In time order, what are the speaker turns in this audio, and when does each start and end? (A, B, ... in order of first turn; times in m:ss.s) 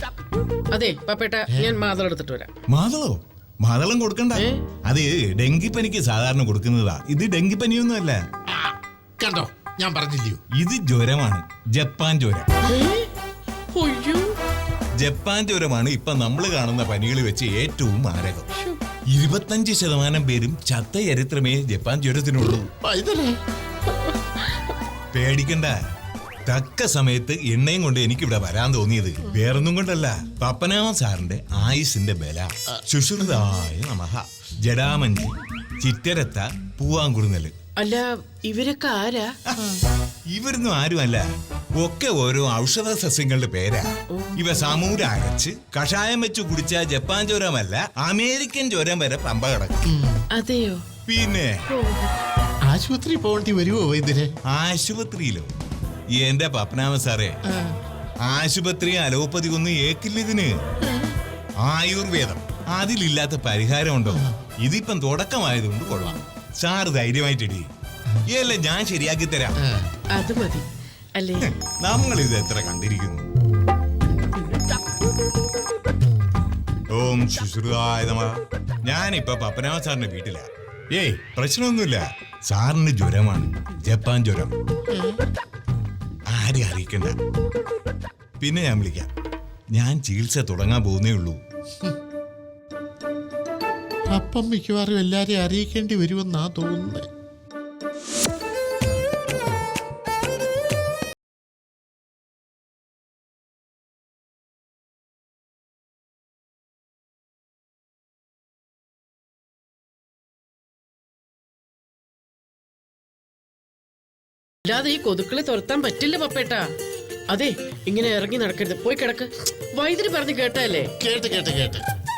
0:00.7-0:02.5 A
0:02.7-0:08.2 B
0:04.4-0:04.6 A
0:08.5-0:10.4 C
0:10.6-0:12.5 B
0:12.7-0:13.1 A
0:13.8-0:14.3 A
0:15.0-0:18.5 B
0:19.1-0:22.7 B
0:22.8-0:23.4 C
0:25.1-0:25.8 B
0:26.5-0:37.5 B
0:37.8-0:39.3 A
0:40.3-0:41.2 B
0:41.8-0:49.8 B
0:44.1-0:44.8 A
0:49.9-0:50.2 C
0:50.4-0:50.8 A
0:51.1-0:51.6 B
0:51.7-0:52.1 A
0:52.7-0:54.3 C
0:54.5-0:55.5 B
0:56.2-0:57.4 B
0:58.3-1:00.6 B
1:01.6-1:07.7 B
1:08.3-1:09.6 B
1:09.6-1:09.9 C
1:10.1-1:10.6 A
1:11.2-1:11.5 A
1:11.7-1:13.3 B
1:17.0-1:24.5 B
1:24.9-1:25.2 C
1:26.3-1:27.2 B
1:28.4-1:29.1 B
1:29.7-1:31.4 B
1:34.1-1:37.1 C
1:54.7-1:56.6 A
1:57.3-2:00.9 A
2:01.0-2:01.8 C